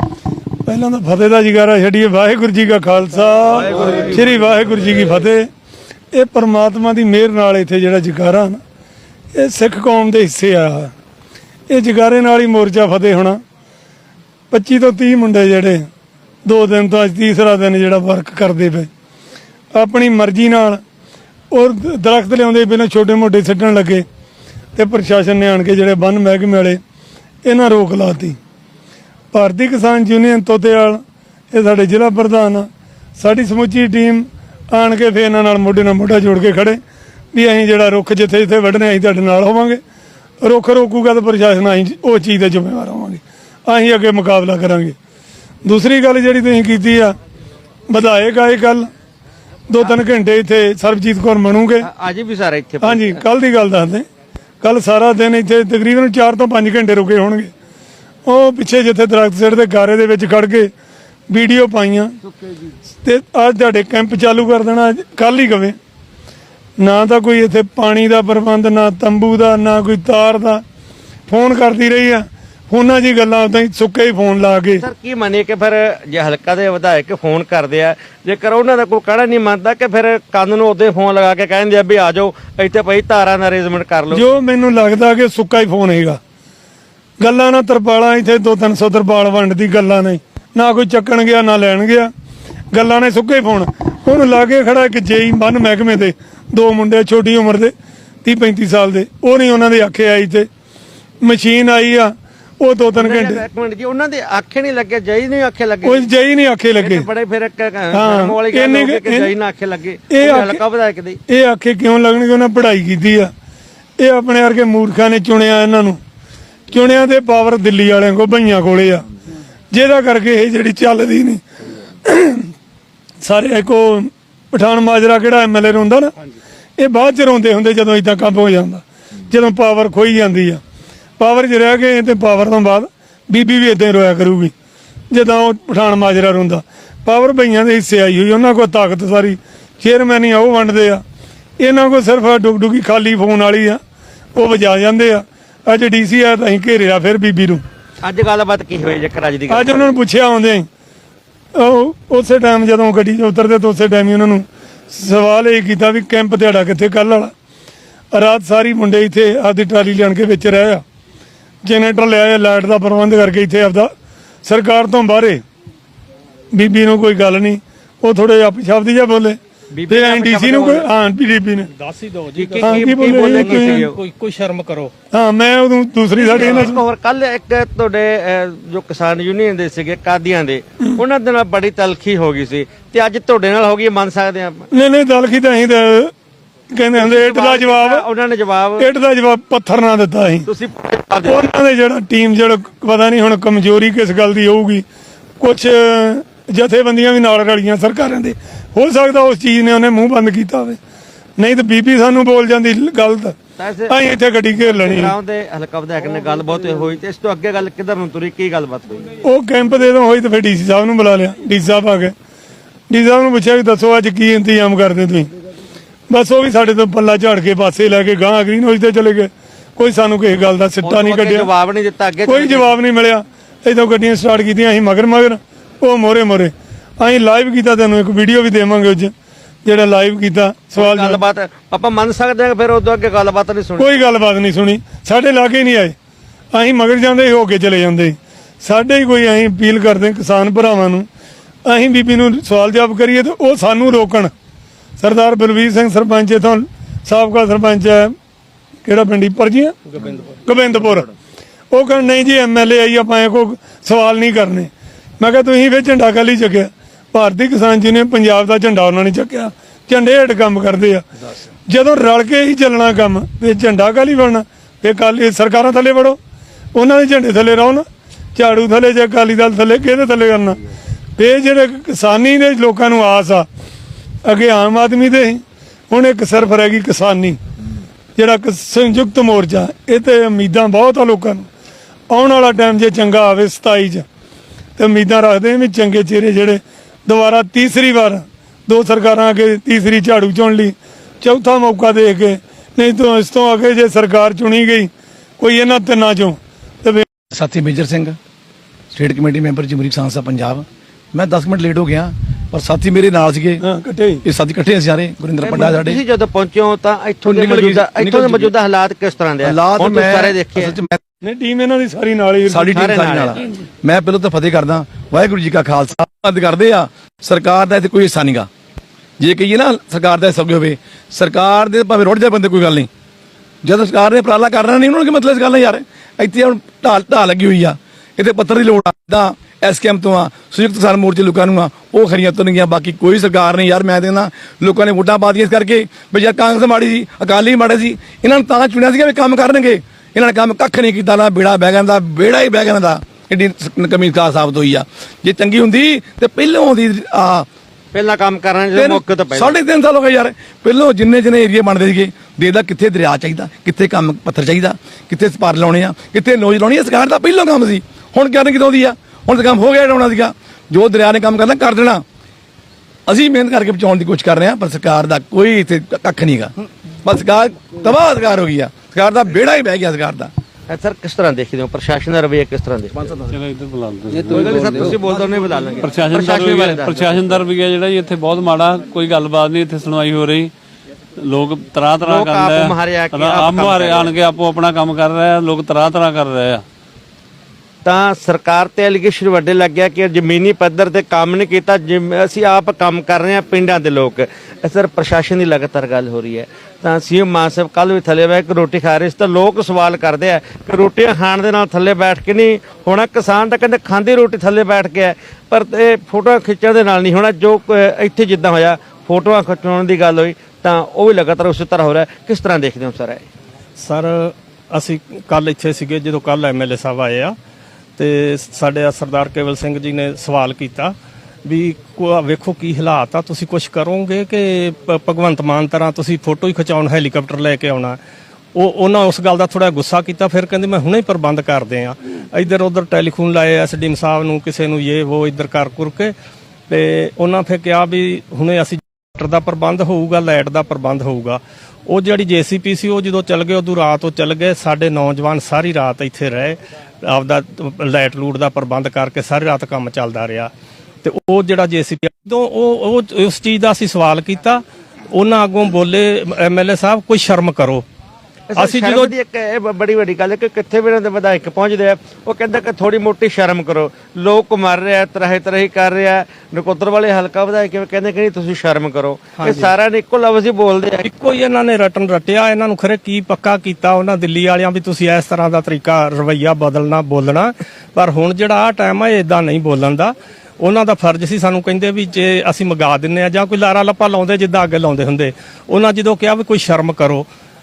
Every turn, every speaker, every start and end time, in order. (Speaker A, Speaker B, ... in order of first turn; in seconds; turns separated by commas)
Speaker A: 0.7-5.5, Speaker A: 6.1-8.6, Speaker A: 9.3-10.9, Speaker A: 11.7-13.4, Speaker A: 14.5-15.9, Speaker A: 16.4-18.9, Speaker A: 19.7-20.8, Speaker A: 21.5-24.1, Speaker A: 24.8-26.8, Speaker A: 27.4-28.4, Speaker A: 29.3-31.0, Speaker A: 31.5-36.8, Speaker A: 37.3-39.8, Speaker A: 40.4-45.0, Speaker A: 45.6-47.2, Speaker A: 47.9-48.9, Speaker A: 49.7-51.9, Speaker B: 51.8-53.2, Speaker A: 52.8-54.1, Speaker A: 54.6-57.5, Speaker A: 58.2-60.7, Speaker A: 61.3-62.2, Speaker A: 63.0-65.8, Speaker A: 66.8-70.6, Speaker A: 71.3-74.8, Speaker B: 74.8-84.2, Speaker A: 84.1-86.2, Speaker A: 87.2-92.1, Speaker A: 92.7-97.7, Speaker A: 98.2-100.5, Speaker A: 101.2-103.4, Speaker B: 102.9-106.1, Speaker A: 105.8-107.1, Speaker B: 106.8-111.2, Speaker A: 107.9-109.3, Speaker A: 110.1-110.6, Speaker A: 111.3-113.3, Speaker A: 114.0-116.0, Speaker A: 116.7-119.0, Speaker A: 119.7-121.4, Speaker A: 122.0-122.5, Speaker A: 123.2-126.1, Speaker A: 126.8-130.6, Speaker A: 131.2-134.5, Speaker A: 135.1-141.0, Speaker A: 141.6-143.8, Speaker A: 144.3-147.6, Speaker B: 148.0-149.9, Speaker A: 149.5-150.7, Speaker A: 151.6-157.3, Speaker A: 158.1-160.8, Speaker A: 161.6-163.9, Speaker A: 164.4-165.4, Speaker A: 166.5-169.4, Speaker B: 169.7-170.9, Speaker A: 169.9-171.7, Speaker C: 171.7-174.9, Speaker B: 172.4-174.0, Speaker A: 172.6-173.9, Speaker A: 175.1-176.8, Speaker B: 176.2-184.7, Speaker A: 184.7-186.1, Speaker A: 186.7-188.1, Speaker B: 187.0-188.9, Speaker A: 188.8-190.5, Speaker B: 190.5-191.4, Speaker A: 191.3-194.8, Speaker A: 195.4-200.8, Speaker A: 201.4-203.4, Speaker B: 203.6-204.0, Speaker A: 203.9-205.1, Speaker B: 204.6-209.1, Speaker A: 209.2-212.1, Speaker A: 212.9-215.3, Speaker A: 216.1-221.5, Speaker B: 220.8-222.7, Speaker A: 222.3-229.1, Speaker A: 229.7-231.2, Speaker B: 230.8-233.9, Speaker A: 233.8-235.9, Speaker A: 236.5-241.1, Speaker A: 241.7-244.3, Speaker A: 245.0-248.1, Speaker A: 248.8-249.8, Speaker A: 250.4-251.1, Speaker A: 251.7-261.1, Speaker A: 261.7-266.2, Speaker A: 266.8-270.6, Speaker A: 271.2-273.5, Speaker A: 274.2-277.4, Speaker A: 278.2-281.5, Speaker A: 282.1-284.1, Speaker A: 284.8-297.1, Speaker D: 297.3-298.2, Speaker D: 298.9-303.6, Speaker A: 303.6-304.2, Speaker D: 304.2-306.0, Speaker B: 305.4-310.8, Speaker D: 307.2-308.5, Speaker D: 309.4-311.0, Speaker A: 311.2-312.8, Speaker D: 312.5-318.5, Speaker B: 312.7-313.4, Speaker D: 319.2-322.9, Speaker D: 323.6-347.5, Speaker B: 347.9-349.6, Speaker D: 348.8-362.0, Speaker D: 363.1-366.5, Speaker D: 367.0-370.3, Speaker B: 370.7-373.1, Speaker E: 373.3-375.0, Speaker B: 374.2-377.3, Speaker E: 375.8-380.5, Speaker E: 381.2-386.7, Speaker B: 382.0-384.1, Speaker B: 387.9-413.2, Speaker C: 413.8-417.4, Speaker C: 418.0-428.0, Speaker C: 428.5-436.1, Speaker C: 436.7-450.5, Speaker C: 451.0-457.8, Speaker B: 458.5-471.1, Speaker C: 458.6-459.1, Speaker C: 469.4-469.7, Speaker C: 471.0-487.3